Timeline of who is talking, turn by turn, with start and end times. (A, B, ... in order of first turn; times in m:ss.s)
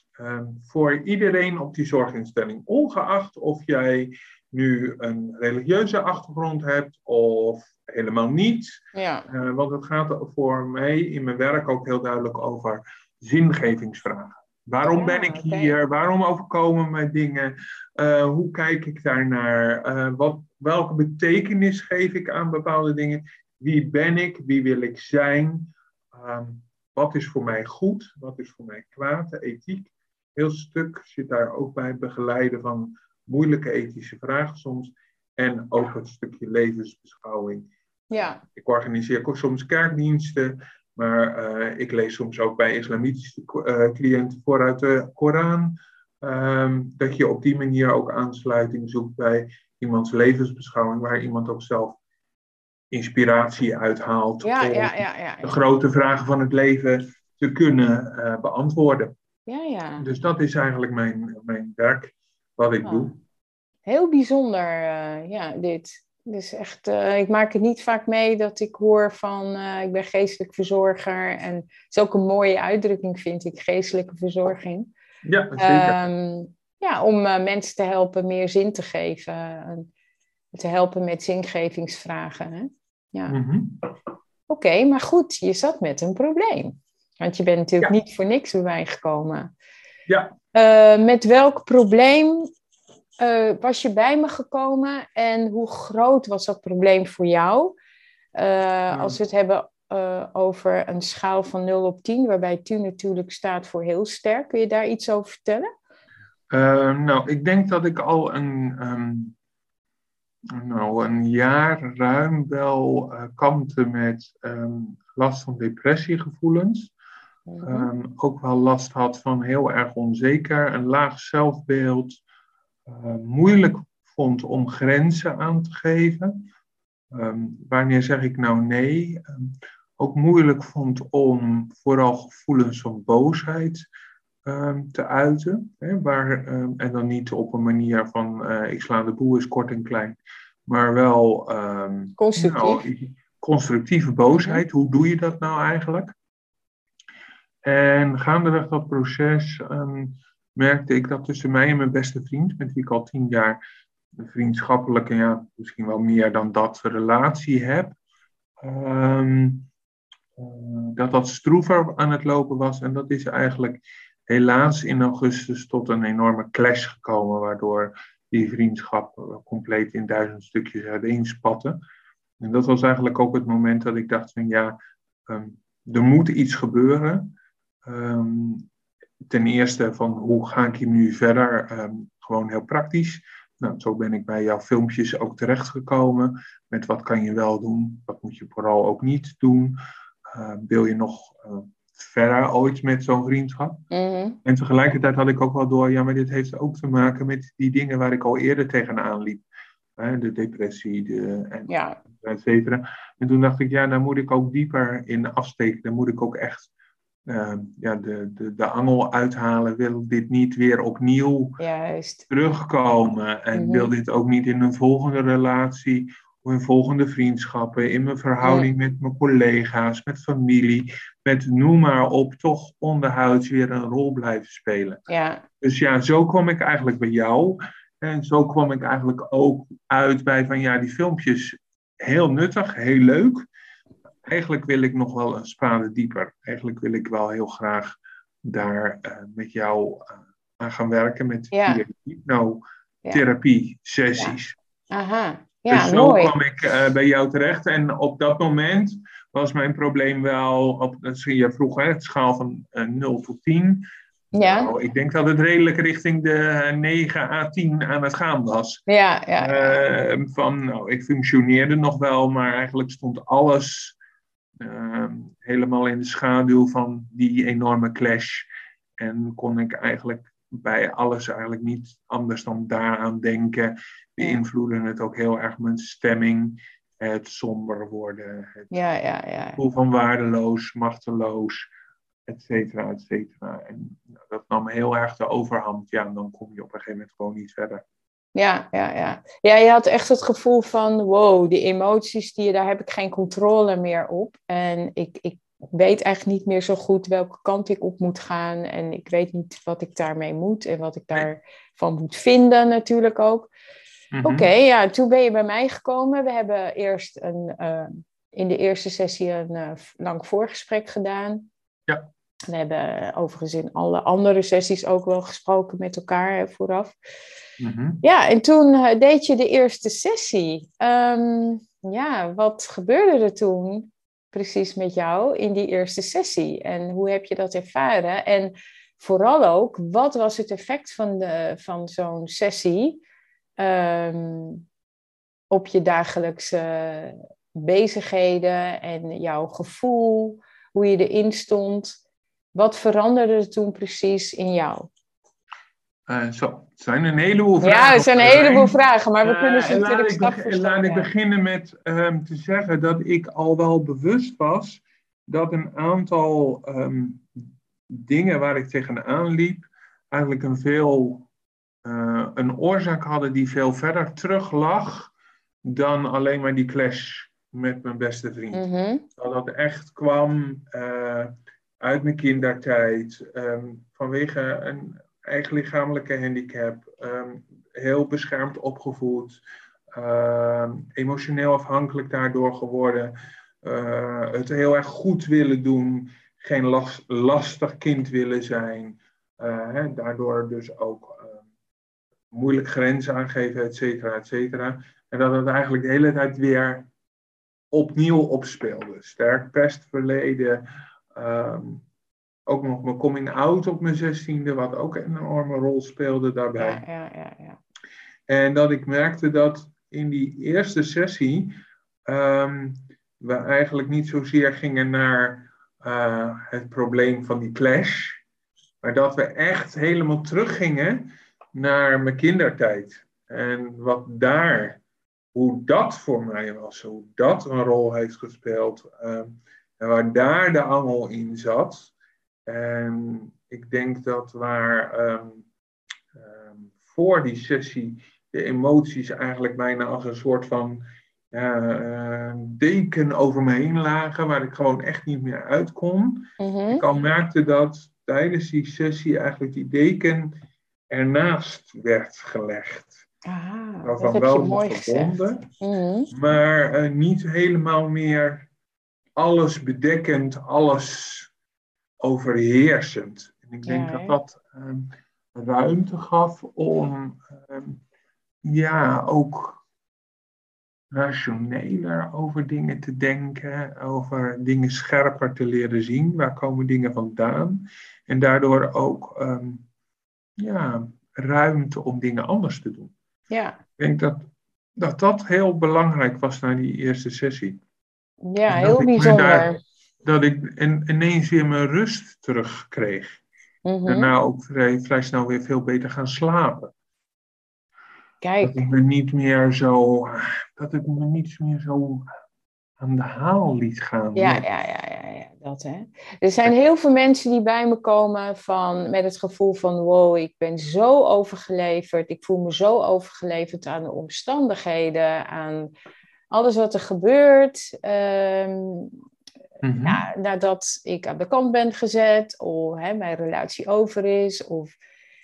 0:00.2-0:37.7 A
0:08.9-0:09.3 B
0:14.9-0:15.7 B
0:38.1-0:38.4 B
0:38.5-0:52.0 A
0:52.9-0:59.1 A
0:54.4-0:55.5 B
0:59.5-1:00.1 B
1:00.0-1:03.2 A
1:02.8-1:03.1 B
1:03.8-1:14.9 B
1:15.2-1:16.0 A
1:15.6-1:19.9 B
1:20.5-1:23.4 B
1:23.3-1:23.8 A
1:24.5-1:29.5 B
1:30.1-1:30.3 A
1:30.5-1:32.5 B
1:33.2-1:37.8 B
1:38.3-1:45.7 B
1:46.5-1:49.3 A
1:50.5-1:56.9 A
1:57.5-1:57.9 B
1:57.6-2:02.2 A
2:02.9-2:06.4 A
2:07.1-2:13.8 A
2:14.4-2:26.1 A
2:22.2-2:22.8 B
2:27.6-2:33.6 A
2:34.2-2:38.0 A
2:38.6-2:39.7 A
2:40.4-2:51.8 A
2:52.4-2:57.3 A
2:57.8-2:58.7 A
2:59.2-3:09.8 A
3:10.3-3:13.8 A
3:13.9-3:14.4 B
3:14.4-3:19.4 A
3:20.0-3:26.7 A
3:21.7-3:22.0 B
3:27.3-3:31.6 A
3:31.6-3:32.2 B
3:32.3-3:45.0 A
3:33.5-3:33.9 B
3:38.4-3:38.7 B
3:45.1-3:45.4 B
3:45.6-3:53.4 A
3:54.2-4:04.6 A
4:01.5-4:01.8 B
4:04.9-4:06.3 B
4:05.7-4:18.8 A
4:14.3-4:14.7 B
4:18.9-4:19.8 B
4:19.4-4:24.0 A
4:24.6-4:38.7 A
4:38.7-4:39.6 B
4:39.6-4:41.7 A
4:42.3-4:47.8 A
4:48.3-5:03.5 B
5:04.1-5:04.5 A
5:04.2-5:11.5 B
5:12.5-5:17.0 B
5:17.6-5:18.0 A
5:18.0-5:33.0 B
5:33.6-5:34.6 B
5:35.5-5:42.0 B
5:42.5-5:44.9 B
5:46.1-6:01.3 A
5:47.6-5:51.1 B
6:01.8-6:05.1 A
6:05.6-6:08.6 A
6:08.5-6:09.1 B
6:09.2-6:19.4 A
6:19.9-6:31.4 A
6:32.3-6:36.9 A
6:37.7-6:40.6 A
6:41.1-6:41.8 A
6:42.5-6:46.8 A
6:46.6-6:47.6 B
6:48.3-6:51.5 A
6:52.1-6:58.2 A
6:58.8-7:04.8 A
7:05.3-7:11.9 A
7:12.4-7:15.4 A
7:16.1-7:30.3 A
7:26.4-7:26.8 B
7:30.9-7:33.0 A
7:33.2-7:36.1 B
7:33.8-7:35.4 A
7:36.1-7:38.5 A
7:39.2-7:41.3 A
7:42.0-7:47.8 A
7:43.6-7:44.2 B
7:48.4-7:49.6 A
7:50.9-7:59.6 A
8:00.4-8:02.9 A
8:03.3-8:03.6 B
8:03.8-8:04.2 A
8:04.8-8:07.6 A
8:08.2-8:09.6 B
8:08.5-8:13.2 A
8:13.6-8:14.1 B
8:13.9-8:16.7 A
8:18.2-8:18.6 B
8:18.4-8:22.0 A
8:22.8-8:24.4 A
8:24.1-8:35.7 B
8:36.3-8:39.0 B
8:39.6-8:40.0 A
8:39.8-8:44.7 B